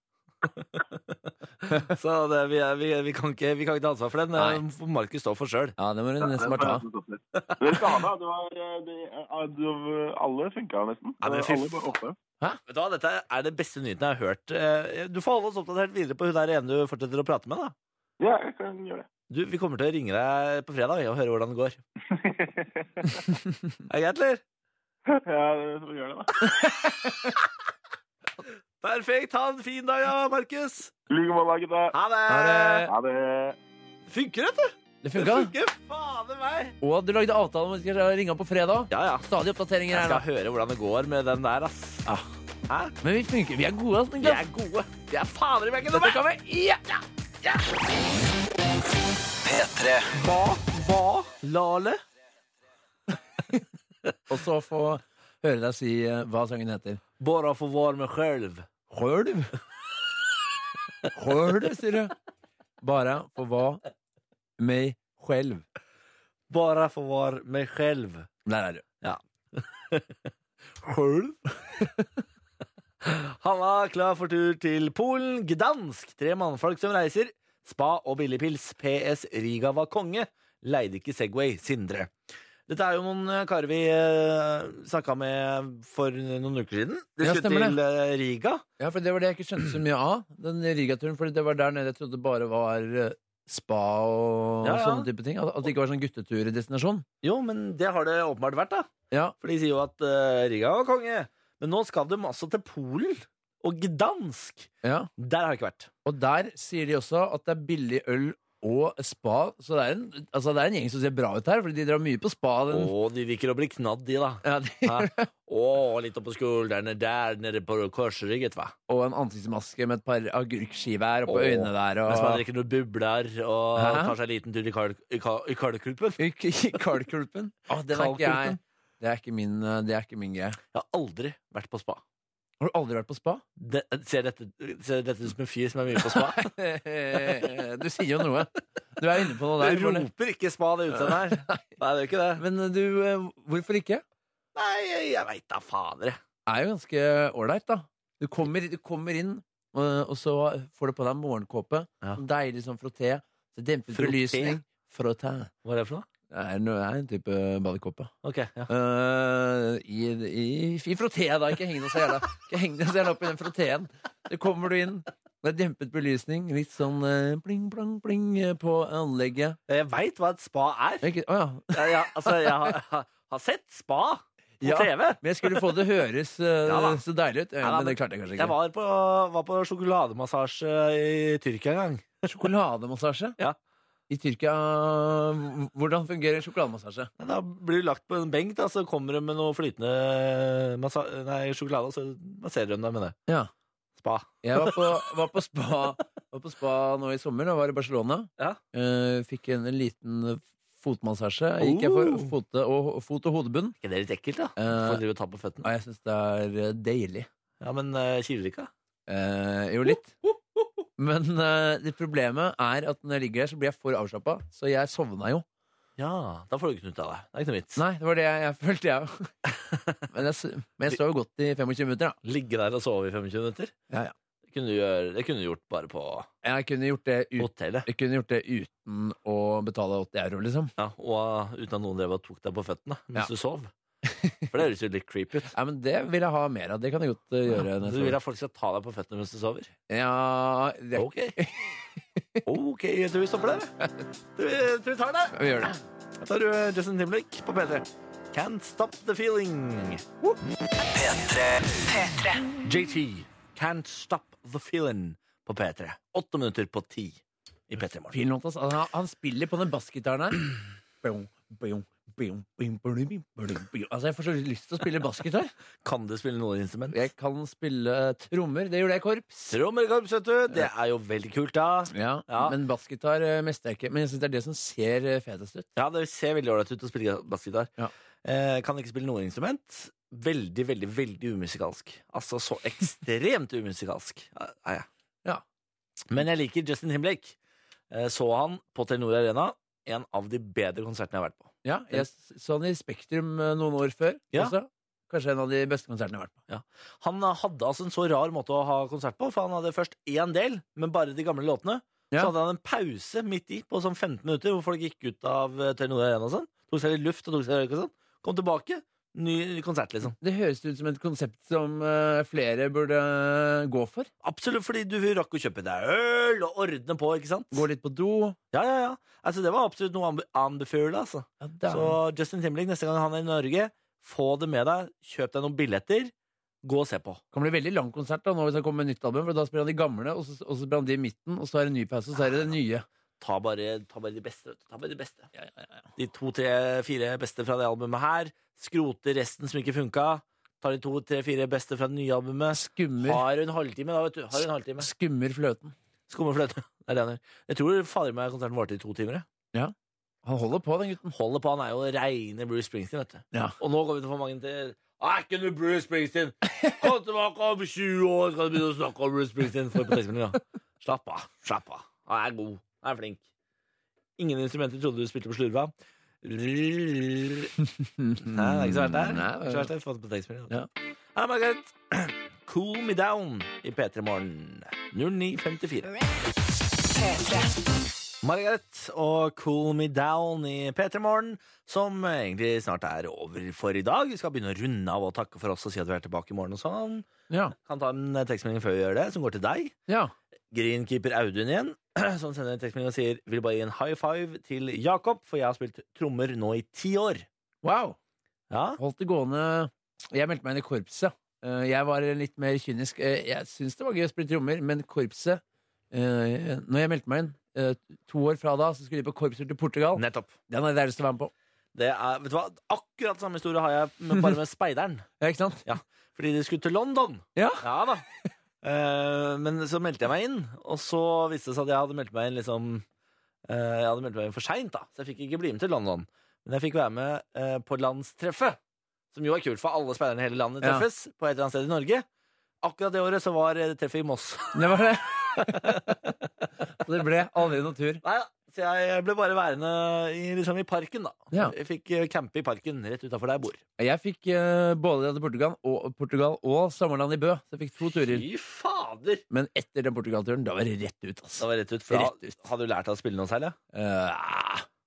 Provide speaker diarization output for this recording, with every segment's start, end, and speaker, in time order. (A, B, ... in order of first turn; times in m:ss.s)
0:00.4-0:05.8 A
0:04.4-0:04.6 B
0:05.8-0:06.9 B
0:06.2-0:12.2 C
0:07.4-0:07.8 A
0:11.2-0:11.9 A
0:12.7-0:17.8 A
0:18.2-0:19.1 C
0:19.3-0:21.8 A
0:22.1-0:23.2 C
0:23.9-0:24.4 A
0:25.1-0:26.4 C
0:26.5-0:27.4 B
0:28.8-0:30.9 A
0:31.1-0:31.9 C
0:31.9-0:32.9 A
0:32.3-0:32.9 B
0:32.9-0:33.6 C
0:34.1-0:36.8 A
0:35.0-0:35.5 B
0:36.8-0:40.2 B
0:38.9-0:39.3 A
0:39.9-0:42.1 A
0:42.7-0:42.9 A
0:43.0-0:44.4 B
0:44.2-0:46.2 A
0:45.9-0:47.0 B
0:49.4-0:50.1 D
0:50.2-0:52.0 A
0:54.3-0:57.0 B
0:57.2-0:58.7 A
0:58.9-0:59.5 B
1:01.1-1:02.1 B
1:02.8-1:03.8 B
1:04.6-1:05.6 B
1:06.5-1:08.3 A
1:08.5-1:08.8 B
1:09.0-1:10.3 A
1:10.8-1:11.8 A
1:13.0-1:22.1 A
1:22.7-1:28.6 A
1:27.2-1:27.8 B
1:28.8-1:37.1 B
1:34.6-1:35.1 A
1:37.2-1:45.9 A
1:39.1-1:39.4 B
1:44.8-1:45.1 B
1:46.0-1:52.9 B
1:52.7-1:58.7 A
1:54.4-1:55.3 B
1:58.9-2:02.4 B
2:01.3-2:06.2 A
2:03.8-2:04.2 B
2:06.2-2:10.6 B
2:07.9-2:08.6 A
2:10.7-2:12.0 A
2:12.6-2:13.4 B
2:13.6-2:16.5 A
2:16.0-2:20.1 B
2:19.6-2:22.4 A
2:21.0-2:21.6 B
2:22.4-2:24.0 B
2:24.6-2:26.2 A
2:26.5-2:35.5 B
2:33.9-2:34.6 A
2:35.6-2:36.1 A
2:36.3-2:38.1 B
2:38.2-2:38.7 A
2:38.7-2:49.6 B
2:49.7-2:51.1 A
2:51.0-2:52.8 B
2:51.7-2:55.7 A
2:54.6-2:58.6 B
2:56.7-2:57.0 A
2:57.6-3:02.4 A
3:02.3-3:03.4 B
3:04.1-3:07.1 B
3:07.2-3:13.2 A
3:14.0-3:15.0 A
3:14.4-3:23.8 B
3:21.6-3:22.3 A
3:23.8-3:25.7 A
3:24.6-3:25.0 B
3:25.6-3:27.3 B
3:27.6-3:28.7 A
3:29.1-3:30.2 B
3:30.2-3:30.7 A
3:31.0-3:35.4 B
3:36.0-3:37.8 A
3:37.8-3:39.3 B
3:39.6-3:40.0 A
3:40.1-3:42.2 B
3:42.2-3:43.7 A
3:44.5-3:46.3 A
3:46.4-3:50.7 B
3:47.4-3:47.9 A
3:50.8-3:53.7 A
3:54.0-3:54.5 B
3:54.5-3:55.5 A
3:55.5-3:58.2 B
3:57.8-3:59.7 A
3:59.9-4:02.5 B
4:01.0-4:01.4 A
4:02.5-4:03.7 A
4:03.8-4:04.0 B
4:04.4-4:05.4 A
4:05.3-4:05.8 B
4:06.2-4:10.1 A
4:10.8-4:12.6 D
4:12.6-4:18.2 A
4:18.1-4:25.5 B
4:25.8-4:27.0 A
4:26.9-4:29.6 B
4:29.5-4:32.6 A
4:31.9-4:35.7 B
4:35.8-4:37.7 A
4:38.2-4:44.9 A
4:46.1-4:47.4 A
4:47.9-4:52.0 A
4:51.6-4:56.4 B
4:56.5-5:10.2 A
5:10.1-5:14.1 B
5:14.2-5:17.6 A
5:17.5-5:18.4 B
5:18.5-5:26.1 A
5:21.4-5:22.0 B
5:26.6-5:27.2 A
5:27.3-5:32.9 B
5:33.2-5:35.3 A
5:36.0-5:44.9 A
5:42.5-5:43.2 B
5:44.8-5:45.7 B
5:46.1-5:49.3 A
5:49.5-5:51.1 B
5:51.1-6:03.2 A
6:04.2-6:07.5 A
6:07.6-6:09.7 B
6:08.2-6:10.6 A
6:11.2-6:15.9 A
6:18.2-6:29.8 A
6:27.3-6:27.6 B
6:29.9-6:30.1 B
6:30.5-6:37.3 A
6:37.6-6:38.0 B
6:38.5-6:38.8 A
6:38.8-6:51.3 B
6:50.0-6:50.4 A
6:51.8-6:55.1 A
6:55.2-6:55.7 B
6:55.6-6:58.1 A
6:57.4-6:57.7 B
6:58.6-7:02.8 A
7:03.5-7:08.6 A
7:09.1-7:12.0 A
7:12.6-7:14.6 A
7:14.5-7:16.0 B
7:15.4-7:16.0 A
7:16.8-7:18.0 B
7:18.0-7:23.6 A
7:23.8-7:28.3 B
7:27.9-7:29.2 A
7:29.3-7:32.4 B
7:31.4-7:33.6 A
7:33.7-7:34.7 B